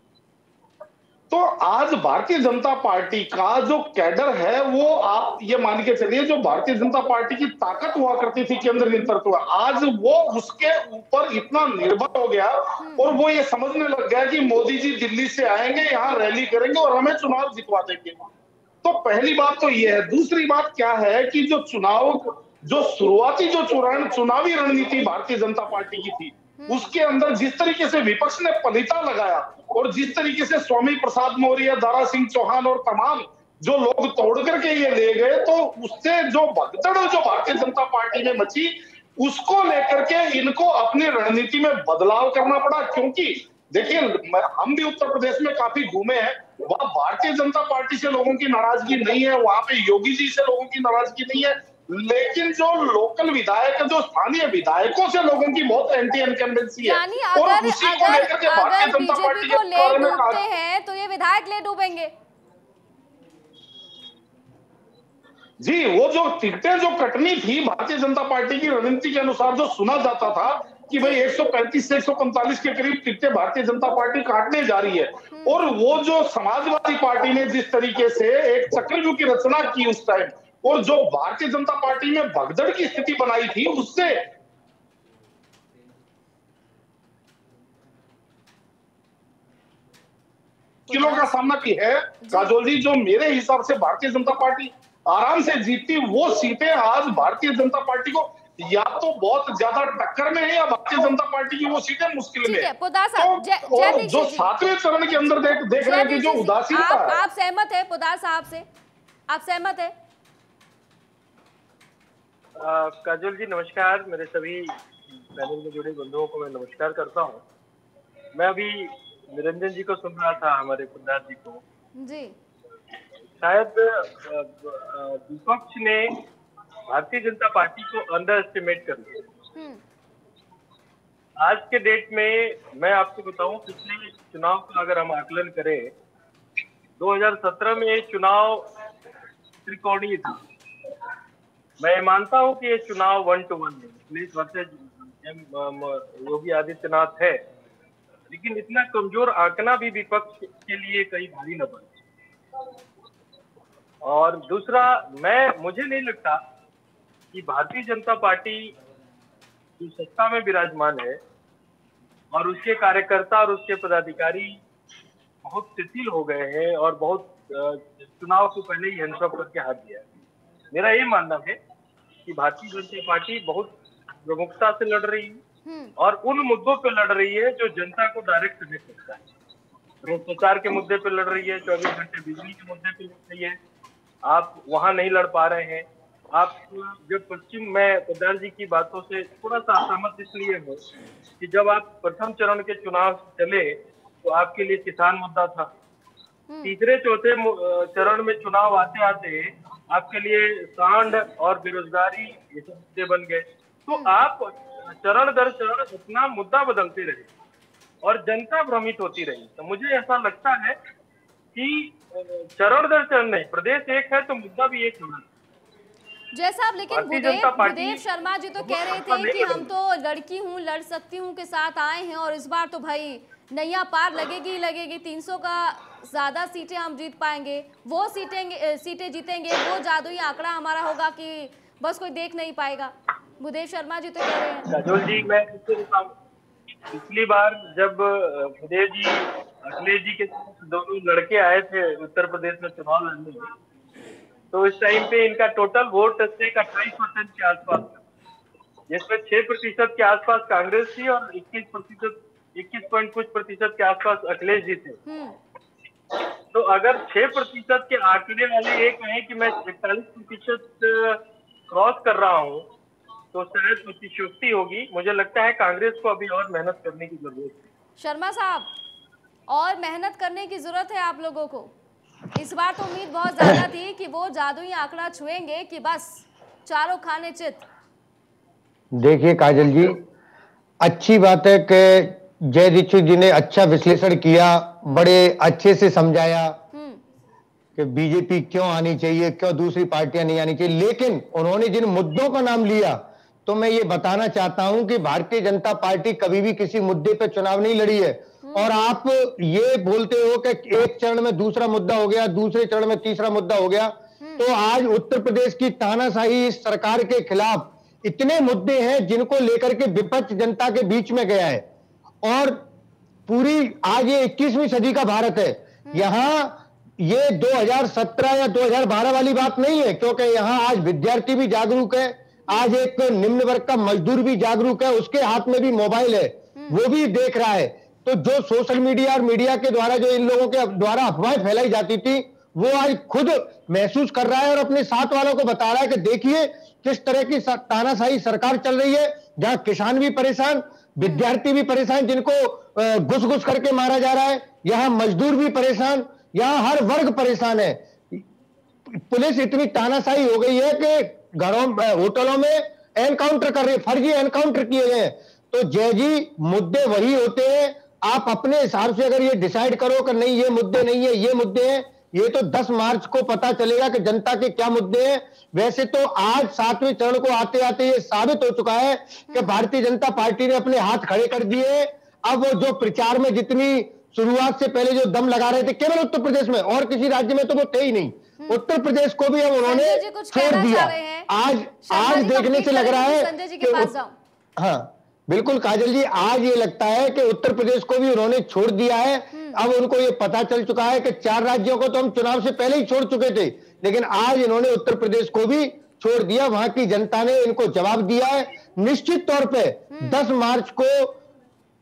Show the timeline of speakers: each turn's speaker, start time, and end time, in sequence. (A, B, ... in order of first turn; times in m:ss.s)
0:01.3-0:18.3 A
0:18.8-1:00.4 A
0:26.6-0:26.9 B
0:56.8-1:02.1 B
1:05.6-1:24.2 A
1:30.9-1:31.3 B
1:30.9-1:47.2 A
1:32.2-1:32.5 B
1:42.4-1:44.6 B
1:45.8-1:48.7 B
1:49.3-1:49.9 B
1:52.6-1:57.4 C
1:58.4-2:01.6 C
2:02.0-2:02.4 B
2:03.4-2:06.2 C
2:06.9-2:09.4 C
2:09.6-2:09.8 B
2:11.4-2:15.9 C
2:17.0-2:18.7 C
2:19.6-2:20.4 C
2:21.8-2:27.4 C
2:28.3-2:32.0 C
2:34.0-2:36.4 C
2:37.3-2:38.7 C
2:39.8-2:41.2 C
2:42.3-2:44.6 C
2:45.4-2:50.0 C
2:50.7-2:51.6 C
2:52.3-2:53.7 C
2:54.3-2:55.4 C
2:55.7-2:55.9 B
2:56.0-2:59.2 C
3:00.0-3:03.6 C
3:04.2-3:10.8 C
3:11.4-3:15.7 C
3:16.5-3:16.7 B
3:16.6-3:27.3 C
3:28.0-3:30.8 C
3:31.5-3:35.3 C
3:36.3-3:54.7 B
3:36.9-3:38.0 C
3:38.6-3:39.7 C
3:54.7-3:56.1 C
3:56.9-4:03.5 C
4:04.5-4:08.0 C
4:08.9-4:15.0 C
4:15.1-4:15.4 B
4:16.5-4:22.7 C
4:23.3-4:27.6 C
4:28.0-4:28.7 B
4:29.5-4:31.7 B
4:32.3-4:37.6 B
4:38.9-4:40.0 D
4:40.8-4:46.6 D
4:46.7-4:47.0 B
4:47.8-5:11.6 D
4:58.4-4:58.7 B
5:12.2-5:12.6 D
5:13.3-5:48.2 D
5:48.9-6:23.9 D
6:09.3-6:09.6 B
6:19.6-6:21.3 B
6:21.9-6:24.1 B
6:24.6-6:41.2 D
6:29.3-6:29.6 B
6:39.9-6:40.2 B